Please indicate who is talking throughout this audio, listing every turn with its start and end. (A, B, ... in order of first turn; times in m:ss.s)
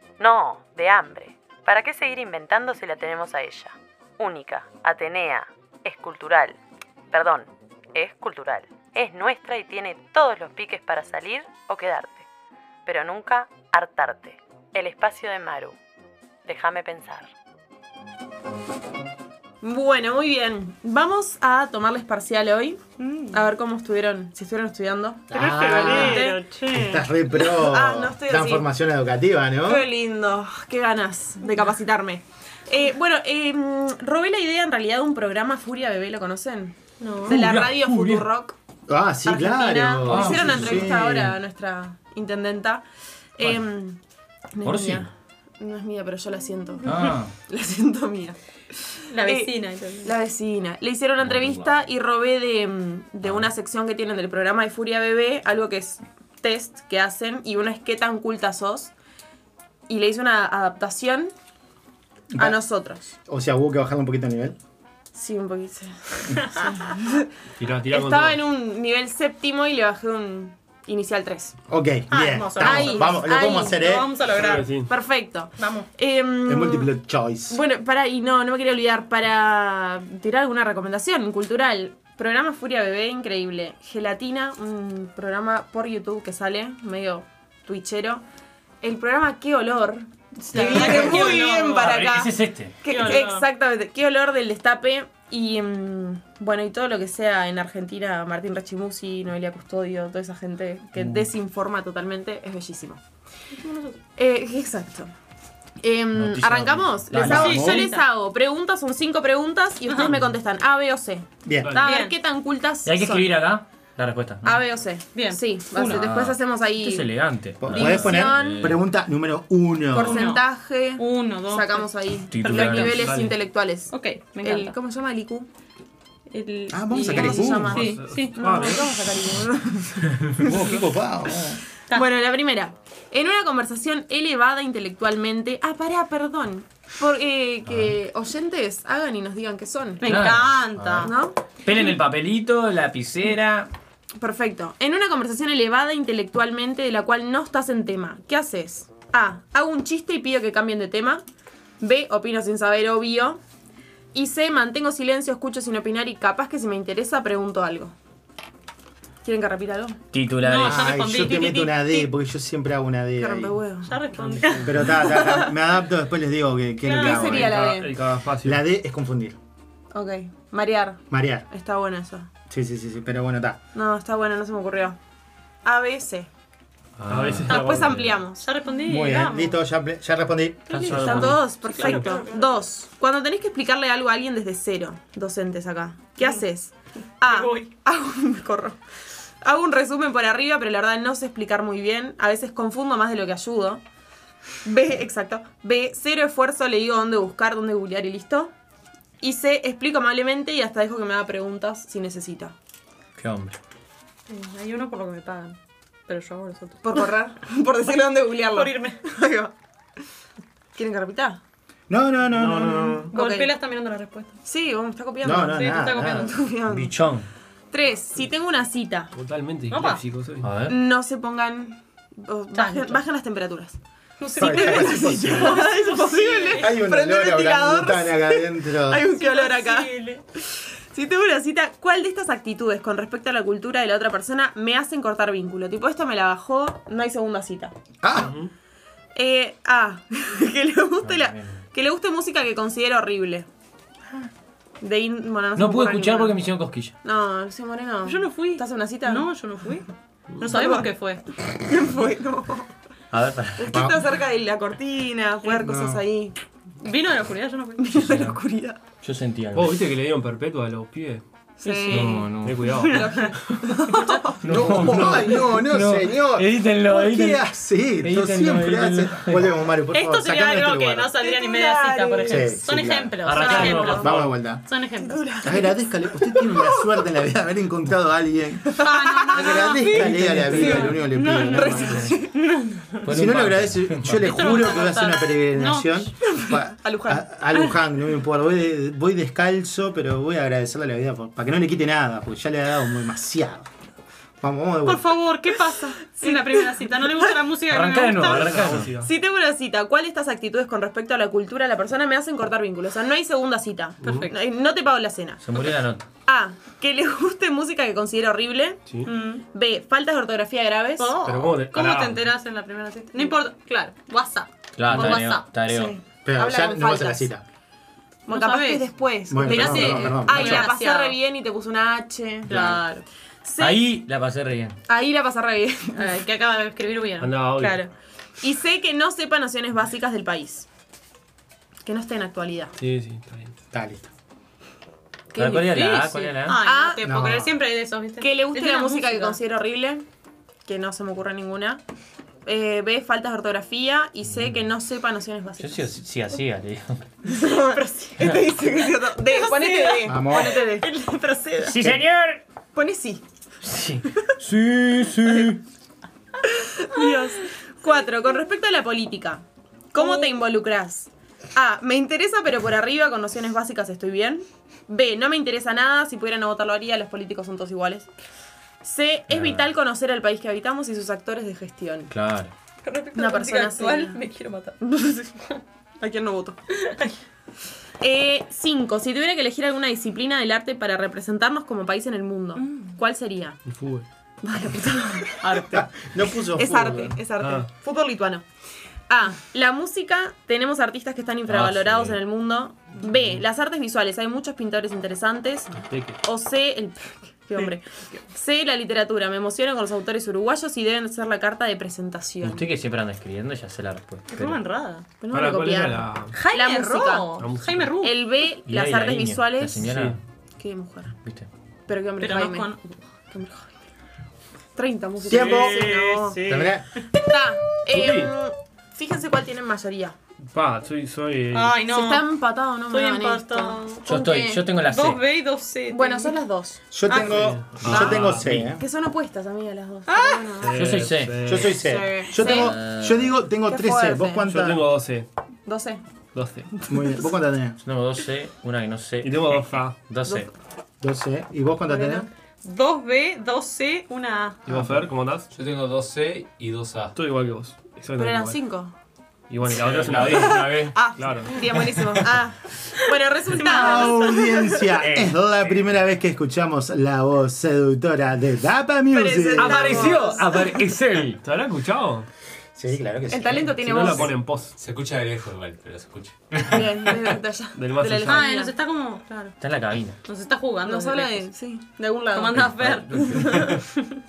0:00.2-0:06.6 A
0:07.1-0:12.2 A
0:12.8-0:15.8 A
0:16.4-0:17.3 A
0:19.6-0:22.8 B
0:23.0-0:23.5 C
0:23.3-0:26.4 B
0:25.3-0:29.9 D
0:25.3-0:27.0 C
0:27.5-0:28.7 B
0:29.6-0:38.6 B
0:37.0-0:37.4 C
0:37.3-0:38.3 E
0:38.9-0:41.4 D
0:39.2-0:42.8 B
0:43.4-0:44.0 B
0:44.5-0:48.4 B
0:44.6-0:45.1 E
0:46.8-0:47.2 C
0:49.1-0:50.1 C
0:49.2-0:58.9 B
0:51.2-0:51.5 E
0:59.9-1:01.3 B
1:02.3-1:02.6 D
1:02.4-1:03.1 B
1:03.2-1:04.6 D
1:05.1-1:07.3 B
1:06.4-1:06.8 C
1:07.6-1:08.4 F
1:07.9-1:11.6 B
1:11.7-1:14.2 D
1:12.1-1:14.7 C
1:12.6-1:13.9 B
1:14.3-1:14.9 F
1:14.8-1:16.9 B
1:15.6-1:15.9 C
1:16.5-1:17.6 D
1:17.5-1:28.2 B
1:28.8-1:43.0 B
1:30.5-1:31.9 C
1:30.6-1:33.1 E
1:32.8-1:33.4 C
1:43.6-1:44.0 C
1:44.2-1:45.1 B
1:45.8-1:53.4 B
1:46.1-1:47.6 E
1:47.1-1:47.9 D
1:47.2-1:48.0 C
1:49.8-1:50.2 C
1:51.4-1:51.8 D
1:51.6-1:51.9 F
1:51.8-1:52.1 C
1:52.8-1:54.6 E
1:54.4-1:57.1 B
1:55.1-1:56.0 C
1:55.9-1:58.8 E
1:57.6-2:00.3 D
1:57.7-1:58.8 B
1:59.9-2:05.5 B
2:00.0-2:00.4 C
2:01.0-2:03.1 C
2:02.3-2:03.0 E
2:02.6-2:03.4 F
2:03.8-2:04.8 C
2:06.3-2:08.8 C
2:06.7-2:07.9 D
2:07.0-2:10.8 B
2:07.1-2:08.9 F
2:10.4-2:11.6 D
2:11.9-2:20.1 B
2:17.6-2:17.9 E
2:20.0-2:21.1 C
2:20.0-2:21.1 E
2:21.0-2:21.4 B
2:21.6-2:23.7 E
2:24.2-2:31.2 B
2:31.8-2:33.4 B
2:34.1-2:38.0 B
2:39.2-2:40.0 B
2:40.1-2:40.9 E
2:40.4-2:42.1 C
2:40.6-2:43.6 D
2:43.2-2:43.9 B
2:43.8-2:45.0 C
2:44.6-2:47.6 D
2:44.9-2:45.5 B
2:46.8-2:47.4 C
2:47.0-2:47.9 B
2:47.2-2:48.6 F
2:48.4-2:49.4 D
2:49.9-2:52.3 B
2:51.1-2:51.4 D
2:52.5-2:53.6 D
2:53.7-2:55.0 B
2:55.6-2:56.3 B
2:57.0-2:57.5 E
2:57.1-2:58.2 F
2:57.4-2:58.5 B
2:57.4-2:59.6 C
2:58.9-3:01.4 D
3:00.7-3:01.6 E
3:00.7-3:08.8 B
3:01.4-3:02.6 C
3:07.2-3:07.7 C
3:09.4-3:13.8 B
3:14.6-3:18.5 B
3:19.2-3:22.5 B
3:23.2-3:23.6 E
3:24.3-3:26.8 C
3:26.8-3:29.5 B
3:28.5-3:29.0 C
3:30.7-3:31.4 B
3:31.9-3:33.1 D
3:32.4-3:32.9 F
3:33.0-3:33.5 B
3:33.1-3:34.3 C
3:34.4-3:36.9 B
3:35.2-3:36.3 D
3:35.4-3:36.4 C
3:36.7-3:37.3 E
3:37.7-3:39.1 B
3:39.1-3:40.5 F
3:39.7-3:40.0 C
3:40.4-3:40.7 E
3:40.6-3:43.8 B
3:42.5-3:43.0 C
3:44.2-3:46.7 C
3:44.4-3:45.5 D
3:44.4-3:57.7 B
3:46.6-3:49.0 D
3:49.1-3:50.2 C
3:58.0-3:58.3 D
3:58.1-3:58.5 F
3:59.1-4:03.5 B
4:01.0-4:01.6 E
4:04.8-4:06.4 B
4:05.6-4:06.9 E
4:07.0-4:09.3 B
4:08.0-4:11.2 C
4:10.5-4:12.7 B
4:13.1-4:13.8 E
4:13.6-4:16.4 B
4:15.6-4:16.0 D
4:16.8-4:17.9 C
4:17.8-4:18.8 B
4:18.0-4:18.4 E
4:19.0-4:19.7 E
4:19.5-4:21.2 F
4:21.6-4:22.2 B
4:21.6-4:22.1 C
4:21.9-4:23.2 F
4:21.9-4:22.8 E
4:22.6-4:23.2 C
4:22.9-4:24.3 B
4:23.9-4:24.4 C
4:24.4-4:27.4 E
4:24.4-4:31.1 D
4:28.0-4:29.5 E
4:29.9-4:35.6 C
4:31.2-4:32.4 B
4:32.2-4:34.6 D
4:33.2-4:34.3 E
4:33.4-4:34.0 B
4:35.0-4:37.1 B
4:35.4-4:38.8 D
4:38.8-4:42.4 B
4:38.8-4:43.0 C
4:39.3-4:42.1 D
4:43.0-4:44.3 E
4:43.1-4:53.7 D
4:44.2-4:46.1 C
4:46.2-4:47.3 B
4:54.4-4:55.1 D
4:54.8-4:58.5 C
4:56.2-4:56.6 B
4:57.7-4:58.9 E
4:58.2-4:59.1 F
4:59.0-5:05.5 B
5:04.0-5:04.3 C
5:04.0-5:04.3 F
5:05.4-5:06.1 E
5:06.2-5:08.8 B
5:09.0-5:09.4 C
5:09.5-5:11.1 B
5:11.0-5:15.4 C
5:11.2-5:12.2 F
5:14.8-5:15.9 E
5:15.7-5:17.3 B
5:16.2-5:17.4 D
5:18.2-5:22.6 B
5:18.3-5:21.2 C
5:19.3-5:20.7 D
5:22.5-5:23.0 C
5:22.5-5:22.8 E
5:23.4-5:23.8 B
5:23.6-5:24.8 E
5:24.9-5:26.0 B
5:26.0-5:27.3 C
5:27.2-5:27.8 F
5:27.6-5:30.7 B
5:31.8-5:32.7 B
5:32.8-5:33.5 F
5:33.7-5:34.1 D
5:35.3-5:36.6 E
5:35.4-5:39.4 C
5:36.6-5:37.1 B
5:37.0-5:37.5 D
5:38.2-5:40.0 B
5:40.6-5:41.8 B
5:42.4-5:45.9 B
5:45.6-5:47.0 E
5:47.2-5:50.9 B
5:49.2-5:51.8 C
5:50.0-5:50.6 D
5:51.6-5:52.4 E
5:51.8-5:52.0 D
5:52.7-5:53.2 B
5:53.6-5:55.6 E
5:56.6-6:08.1 B
5:57.0-5:57.3 C
6:00.0-6:00.4 C
6:08.8-6:12.1 B
6:09.3-6:09.7 E
6:12.1-6:12.5 E
6:12.8-6:14.8 C
6:13.1-6:14.2 B
6:14.8-6:15.5 B
6:16.0-6:16.6 B
6:18.0-6:23.6 B
6:22.6-6:22.9 C
6:23.7-6:24.1 F
6:24.4-6:25.6 B
6:25.4-6:25.9 C
6:25.5-6:27.2 D
6:26.5-6:28.4 B
6:27.4-6:27.7 F
6:29.1-6:42.7 B
6:31.5-6:32.2 E
6:35.8-6:36.2 F
6:42.4-6:44.6 E
6:44.3-6:45.0 C
6:45.2-6:47.3 B
6:45.3-6:46.4 F
6:46.5-6:48.2 C
6:47.4-6:48.0 F
6:48.0-6:49.9 B
6:48.6-6:50.2 E
6:49.8-6:50.2 F
6:50.6-6:51.1 B
6:51.2-6:51.5 E
6:51.9-6:52.7 B
6:52.2-6:53.0 C
6:53.3-6:53.8 B
6:54.7-6:56.4 B
6:55.2-6:55.9 D
6:55.4-6:56.7 F
6:55.6-6:56.8 C
6:56.5-6:56.8 D
6:57.1-7:00.2 B
6:57.9-6:58.3 F
7:00.5-7:01.8 F
7:01.5-7:02.3 C
7:01.9-7:04.6 B
7:02.9-7:04.0 C
7:04.0-7:05.2 E
7:04.9-7:06.4 C
7:05.9-7:06.8 B
7:06.9-7:08.8 D
7:07.1-7:07.5 C
7:07.4-7:08.7 F
7:07.9-7:10.8 B
7:10.1-7:10.6 C
7:10.6-7:11.8 F
7:10.7-7:11.3 E
7:11.4-7:14.8 D
7:11.7-7:12.7 B
7:12.4-7:13.3 E
7:13.6-7:14.5 B
7:14.5-7:15.3 F
7:15.6-7:16.0 B
7:16.3-7:16.7 F
7:16.9-7:17.8 D
7:17.8-7:20.5 E
7:19.2-7:20.0 F
7:20.2-7:20.5 B
7:21.0-7:22.2 D
7:21.9-7:22.2 B
7:22.6-7:24.6 C
7:24.7-7:25.5 F
7:25.5-7:27.1 G
7:27.1-7:28.6 F
7:28.2-7:28.9 B
7:29.5-7:31.9 F
7:29.7-7:31.0 E
7:30.0-7:30.4 G
7:30.2-7:34.8 B
7:33.6-7:34.7 C
7:33.6-7:39.9 D
7:35.0-7:35.3 E
7:39.1-7:40.8 B
7:39.6-7:40.7 F
7:39.6-7:41.4 E
7:41.4-7:42.3 F
7:42.7-7:44.2 D
7:43.3-7:44.3 B
7:43.7-7:44.8 F
7:44.8-7:46.8 G
7:46.6-7:48.7 B
7:47.7-7:48.5 F
7:48.2-7:49.6 C
7:49.6-7:50.2 E
7:50.2-7:51.5 C
7:50.8-7:53.9 B
7:52.3-7:53.8 C
7:52.6-7:53.0 E
7:53.3-7:53.6 G